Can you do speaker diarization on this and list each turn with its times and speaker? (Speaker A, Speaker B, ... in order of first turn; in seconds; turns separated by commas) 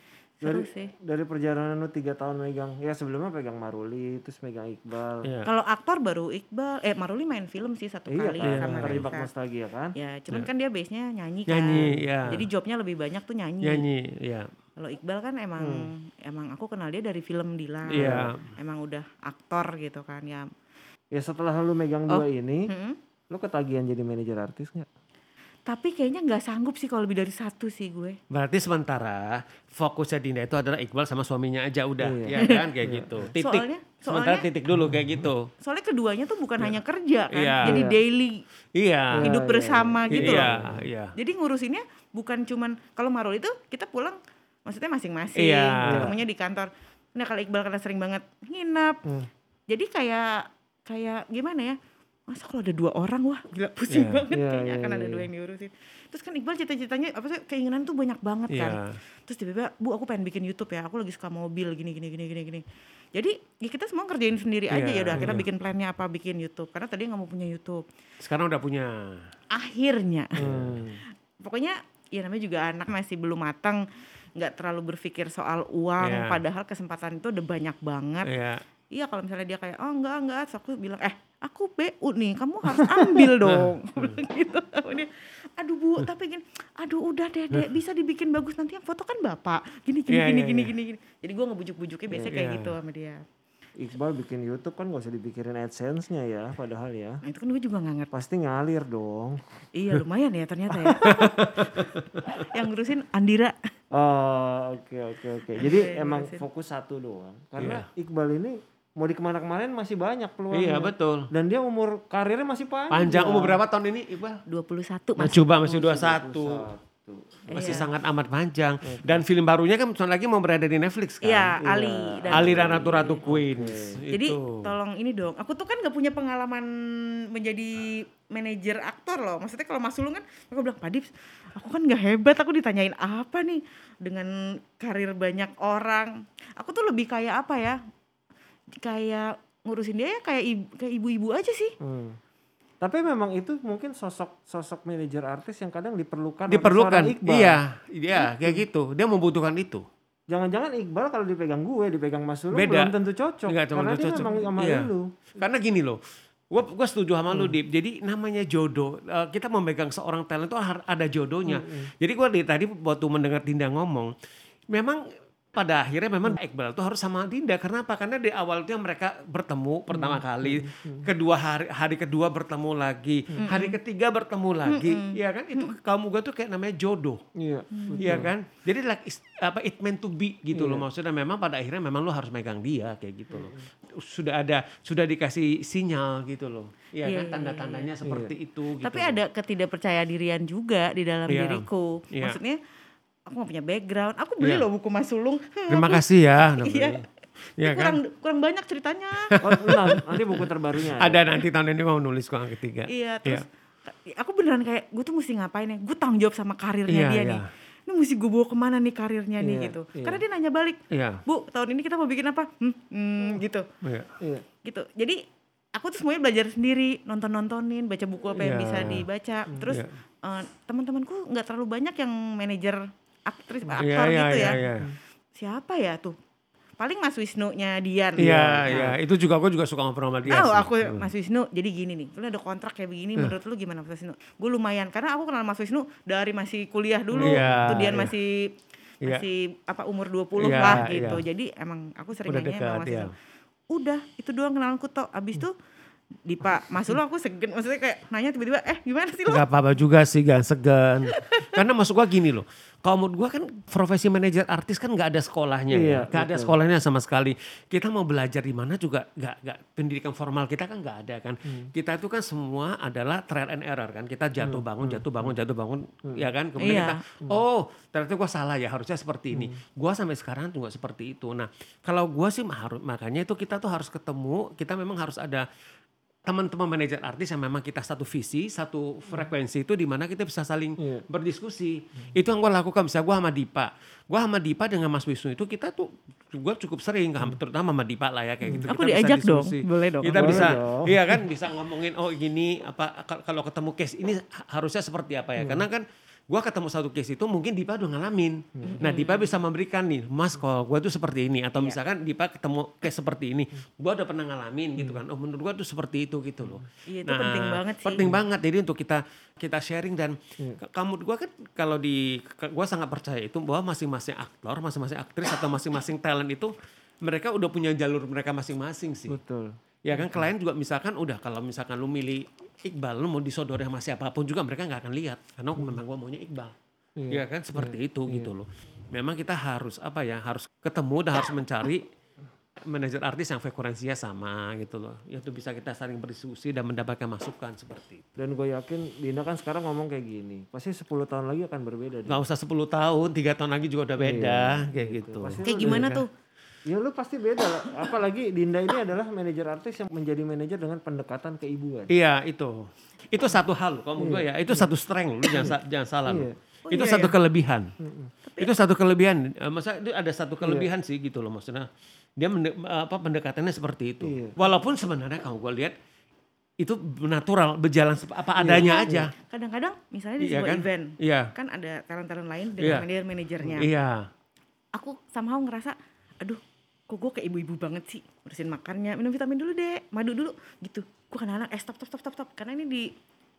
Speaker A: 0.4-0.9, Speaker B: 0.4-5.3, Speaker A: 5.5-9.3, Speaker B: 8.1-9.9, Speaker C: 8.4-9.1, Speaker A: 9.9-13.8, Speaker C: 11.5-12.5, Speaker C: 13.6-14.5, Speaker A: 14.8-20.5, Speaker B: 15.6-15.9, Speaker B: 17.9-18.3, Speaker C: 17.9-18.5, Speaker B: 21.1-22.7, Speaker A: 22.1-23.0, Speaker B: 23.3-24.9, Speaker A: 25.7-28.2, Speaker C: 28.3-35.5, Speaker B: 32.0-33.3, Speaker A: 32.4-32.6, Speaker A: 33.4-34.5, Speaker B: 34.7-35.2, Speaker A: 35.6-38.4, Speaker C: 37.3-37.9, Speaker B: 37.6-38.0, Speaker C: 38.8-39.4, Speaker B: 39.1-40.9, Speaker A: 39.2-40.5, Speaker C: 40.1-41.1, Speaker A: 41.1-49.0, Speaker C: 45.4-46.1, Speaker B: 45.9-46.2, Speaker B: 49.0-49.3, Speaker A: 49.7-51.8, Speaker A: 52.3-62.6, Speaker C: 53.9-54.2, Speaker B: 54.3-55.3, Speaker C: 58.5-59.0, Speaker A: 63.1-67.8, Speaker C: 64.7-65.4, Speaker B: 65.2-65.5, Speaker C: 68.2-69.3, Speaker A: 69.5-70.5, Speaker B: 70.4-71.0, Speaker C: 70.4-70.8, Speaker A: 71.4-73.8, Speaker A: 74.4-78.3, Speaker C: 76.0-76.4, Speaker C: 78.3-78.6, Speaker A: 78.9-93.2, Speaker B: 82.9-83.3, Speaker C: 83.5-84.2, Speaker C: 90.1-90.7, Speaker C: 92.3-92.8, Speaker B: 93.8-97.2, Speaker A: 97.2-98.1, Speaker B: 98.1-99.4, Speaker A: 99.7-103.6, Speaker B: 100.8-101.2, Speaker C: 101.0-102.4, Speaker B: 103.9-113.6, Speaker A: 105.5-106.5, Speaker C: 107.6-107.9, Speaker C: 110.5-111.3, Speaker C: 112.9-114.4, Speaker A: 114.5-115.6, Speaker C: 115.2-116.7, Speaker B: 115.5-117.9, Speaker C: 117.5-121.6, Speaker A: 117.5-117.9, Speaker B: 118.8-119.2, Speaker A: 121.2-123.2, Speaker B: 121.6-124.0, Speaker C: 122.3-124.7, Speaker A: 124.1-137.8, Speaker A: 138.8-141.8, Speaker B: 141.8-142.2, Speaker B: 142.8-147.6, Speaker C: 146.5-149.8, Speaker B: 148.3-148.6, Speaker B: 150.3-155.2, Speaker C: 152.5-152.9, Speaker C: 153.5-164.1, Speaker B: 157.3-157.6, Speaker B: 161.5-161.9, Speaker C: 164.7-165.0, Speaker C: 165.5-177.2, Speaker B: 169.9-171.1, Speaker A: 173.4-173.8, Speaker A: 174.7-175.7, Speaker B: 177.4-178.3, Speaker A: 177.7-178.2, Speaker C: 178.0-189.2, Speaker B: 180.5-180.9, Speaker B: 183.3-183.6, Speaker A: 187.0-187.9, Speaker B: 188.0-188.3, Speaker A: 188.8-192.6, Speaker C: 191.3-192.4, Speaker A: 193.3-196.0, Speaker C: 195.7-197.0, Speaker A: 196.5-197.0, Speaker A: 197.6-199.3, Speaker C: 197.6-198.0, Speaker C: 199.3-200.4, Speaker B: 199.4-201.4, Speaker C: 200.9-203.4, Speaker A: 202.9-213.7, Speaker C: 206.9-207.5, Speaker B: 209.4-210.2, Speaker C: 210.9-211.2, Speaker C: 213.8-214.1, Speaker B: 214.2-214.5, Speaker A: 214.6-215.2, Speaker A: 215.8-224.6, Speaker C: 218.3-219.1, Speaker C: 223.8-224.9, Speaker A: 225.3-226.2, Speaker A: 226.8-228.9, Speaker C: 228.2-231.1, Speaker B: 228.2-228.9, Speaker A: 230.3-243.1, Speaker B: 237.1-238.1, Speaker C: 237.2-238.1, Speaker C: 240.4-241.2, Speaker B: 240.6-240.8, Speaker C: 242.3-243.1, Speaker A: 243.7-245.6, Speaker A: 246.2-249.4, Speaker C: 249.3-275.5, Speaker A: 251.1-251.6, Speaker B: 255.7-256.6, Speaker B: 261.5-261.7, Speaker B: 264.4-265.4, Speaker A: 266.6-267.0, Speaker B: 269.3-269.6, Speaker C: 276.3-319.2, Speaker B: 280.8-281.0, Speaker A: 288.6-290.6, Speaker B: 290.1-291.0, Speaker B: 295.4-295.7, Speaker B: 298.6-298.8, Speaker A: 298.6-299.3, Speaker A: 306.9-308.1, Speaker B: 319.1-320.3, Speaker C: 319.9-326.6, Speaker B: 327.0-328.4, Speaker C: 327.1-331.9, Speaker C: 332.7-338.0, Speaker B: 338.2-342.2, Speaker C: 342.1-346.0, Speaker B: 344.0-346.0, Speaker A: 345.4-346.1, Speaker B: 346.7-351.9, Speaker C: 351.9-357.7, Speaker B: 354.0-354.7, Speaker B: 355.4-356.4, Speaker A: 356.7-357.1, Speaker B: 357.8-358.1, Speaker A: 358.2-358.5, Speaker C: 358.4-365.8, Speaker B: 360.4-360.7, Speaker B: 364.0-364.4, Speaker C: 366.6-369.1, Speaker B: 368.4-369.1, Speaker A: 368.5-373.7, Speaker C: 370.2-371.3, Speaker C: 372.6-372.9, Speaker C: 373.6-374.1, Speaker A: 374.8-382.9